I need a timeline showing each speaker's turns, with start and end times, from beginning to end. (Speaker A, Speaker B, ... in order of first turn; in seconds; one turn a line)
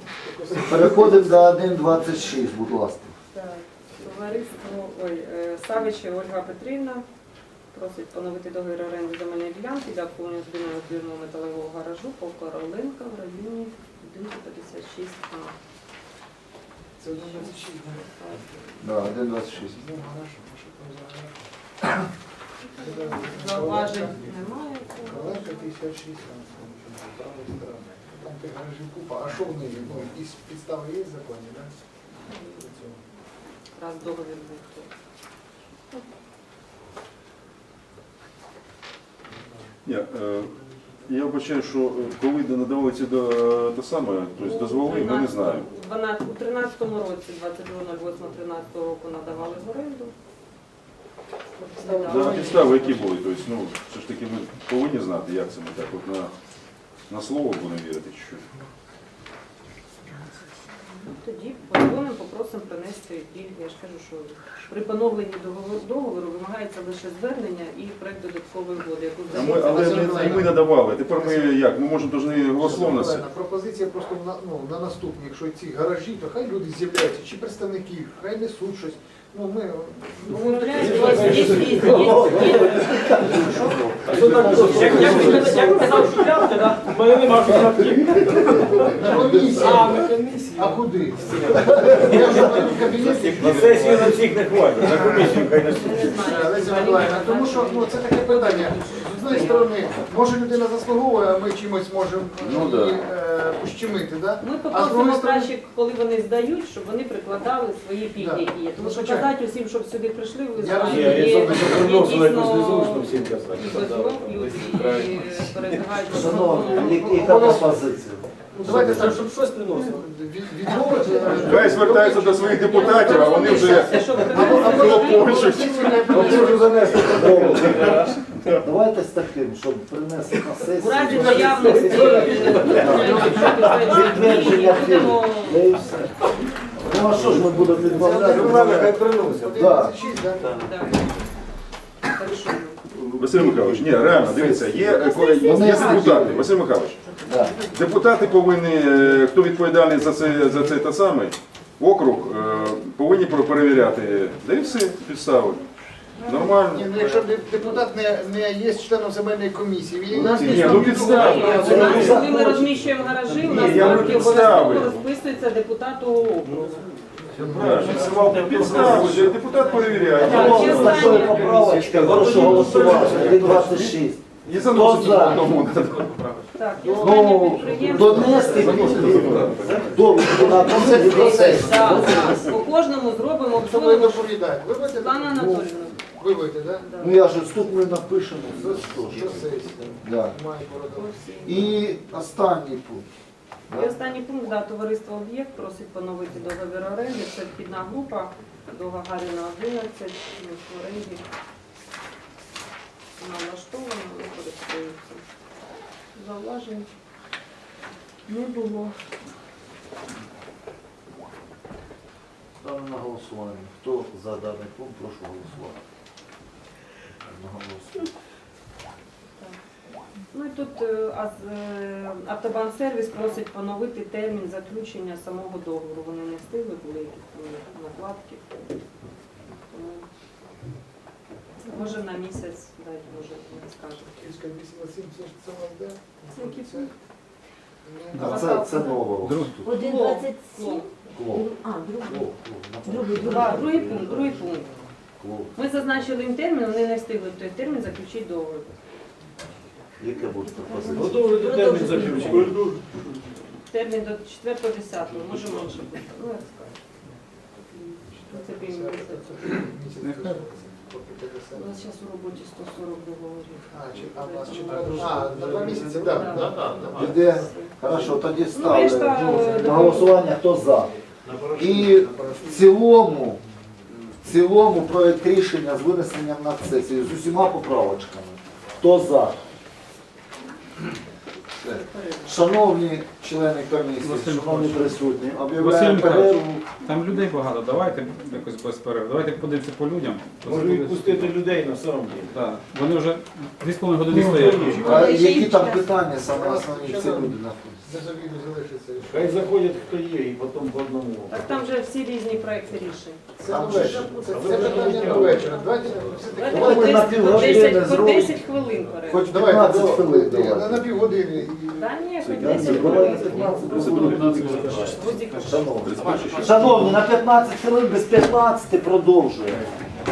Speaker A: 0.2-1.4
Speaker B: 0.7-3.1
Speaker C: 3.3-7.0
Speaker C: 7.7-15.6
Speaker A: 17.0-18.3
Speaker C: 17.2-18.5
Speaker B: 18.8-19.8
Speaker A: 19.2-22.0
Speaker C: 22.7-25.7
Speaker A: 22.8-24.3
Speaker A: 25.0-31.7
Speaker A: 32.5-33.0
Speaker C: 33.8-34.9
Speaker D: 39.9-40.5
Speaker D: 41.1-45.7
Speaker C: 44.4-50.1
Speaker A: 51.6-52.7
Speaker C: 51.8-53.1
Speaker D: 52.1-56.3
Speaker D: 57.1-58.4
Speaker C: 61.0-70.5
Speaker A: 69.3-71.5
Speaker D: 69.3-73.2
Speaker A: 72.6-82.3
Speaker C: 80.3-83.8
Speaker E: 80.7-82.7
Speaker B: 81.3-86.0
Speaker E: 84.1-85.9
Speaker F: 84.2-92.1
Speaker A: 84.3-85.2
Speaker C: 84.8-86.8
Speaker A: 88.8-94.2
Speaker E: 91.7-96.2
Speaker A: 95.0-95.3
Speaker C: 95.7-99.7
Speaker A: 96.1-105.5
Speaker D: 102.4-103.0
Speaker C: 104.4-117.4
Speaker A: 108.2-109.3
Speaker A: 110.6-112.3
Speaker E: 110.8-115.8
Speaker B: 116.0-119.2
Speaker A: 116.4-117.8
Speaker A: 118.5-127.7
Speaker E: 118.9-120.0
Speaker E: 120.9-121.5
Speaker D: 121.5-126.2
Speaker C: 122.5-126.0
Speaker E: 126.1-128.0
Speaker B: 127.0-136.1
Speaker D: 128.0-128.4
Speaker C: 130.8-135.8
Speaker E: 131.9-133.6
Speaker A: 132.8-133.4
Speaker B: 136.8-139.0
Speaker E: 137.2-139.7
Speaker A: 137.9-140.6
Speaker B: 139.5-139.9
Speaker E: 140.4-140.7
Speaker C: 140.4-141.1
Speaker C: 142.1-142.8
Speaker D: 142.9-147.0
Speaker B: 143.3-146.5
Speaker C: 144.8-146.2
Speaker B: 147.2-147.6
Speaker D: 147.7-155.7
Speaker D: 156.2-157.0
Speaker A: 156.7-162.1
Speaker E: 160.1-162.2
Speaker D: 160.3-161.5
Speaker B: 160.5-162.7
Speaker C: 160.6-166.9
Speaker G: 161.8-162.1
Speaker E: 163.3-164.4
Speaker D: 163.5-164.9
Speaker G: 164.1-164.9
Speaker A: 167.3-169.0
Speaker E: 167.4-168.1
Speaker D: 167.6-171.0
Speaker F: 167.6-169.3
Speaker E: 168.6-169.1
Speaker C: 168.8-171.6
Speaker B: 170.2-175.5
Speaker E: 170.3-173.7
Speaker G: 171.2-171.6
Speaker D: 171.7-172.6
Speaker G: 172.6-173.4
Speaker D: 173.4-173.9
Speaker D: 174.4-176.3
Speaker C: 176.6-179.0
Speaker B: 176.8-182.6
Speaker A: 176.8-179.3
Speaker E: 178.6-179.7
Speaker D: 178.7-179.9
Speaker A: 180.3-181.0
Speaker C: 180.3-184.4
Speaker A: 183.6-186.9
Speaker C: 184.9-186.0
Speaker C: 186.8-187.2
Speaker B: 187.0-189.4
Speaker A: 188.5-191.1
Speaker B: 190.0-190.4
Speaker C: 190.9-191.7
Speaker B: 191.4-193.1
Speaker B: 193.7-194.0
Speaker C: 193.7-201.2
Speaker C: 203.2-205.2
Speaker C: 206.2-206.9
Speaker C: 208.3-209.0
Speaker B: 212.6-215.8
Speaker B: 217.3-218.1
Speaker C: 220.3-228.6
Speaker C: 229.7-230.1
Speaker C: 231.7-234.3
Speaker A: 234.1-236.9
Speaker C: 236.3-236.9
Speaker A: 237.8-238.6
Speaker B: 238.2-239.8
Speaker C: 238.2-239.1
Speaker G: 239.2-239.7
Speaker C: 239.7-240.9
Speaker H: 239.7-242.2
Speaker B: 241.1-241.5
Speaker B: 242.0-244.4
Speaker H: 242.8-243.5
Speaker C: 243.1-244.7
Speaker B: 245.2-245.5
Speaker C: 245.6-248.7
Speaker B: 250.0-251.3
Speaker H: 250.5-252.5
Speaker C: 250.7-251.1
Speaker E: 250.9-252.8
Speaker C: 253.7-256.7
Speaker C: 257.7-259.6
Speaker A: 258.1-261.8
Speaker C: 261.5-267.7
Speaker A: 263.7-267.4
Speaker B: 266.8-270.9
Speaker C: 268.5-270.3
Speaker A: 271.3-272.6
Speaker B: 271.5-273.4
Speaker B: 274.2-279.4
Speaker C: 281.6-282.4
Speaker B: 281.6-286.6
Speaker G: 284.0-284.9
Speaker G: 285.6-291.3
Speaker E: 290.4-292.4
Speaker G: 292.3-295.1
Speaker E: 294.1-294.9
Speaker B: 294.1-297.9
Speaker A: 294.8-295.5
Speaker C: 294.8-295.9
Speaker H: 295.2-295.6
Speaker A: 296.2-299.4
Speaker E: 299.1-301.7
Speaker C: 301.3-303.2
Speaker A: 303.4-307.6
Speaker B: 303.5-304.4
Speaker E: 303.9-305.7
Speaker C: 304.5-305.6
Speaker C: 306.3-309.3
Speaker B: 306.5-308.4
Speaker B: 309.1-310.8
Speaker A: 309.3-311.9
Speaker C: 311.7-315.9
Speaker D: 312.2-313.1
Speaker B: 312.4-319.7
Speaker G: 312.6-314.9
Speaker D: 313.7-315.0
Speaker D: 315.8-316.9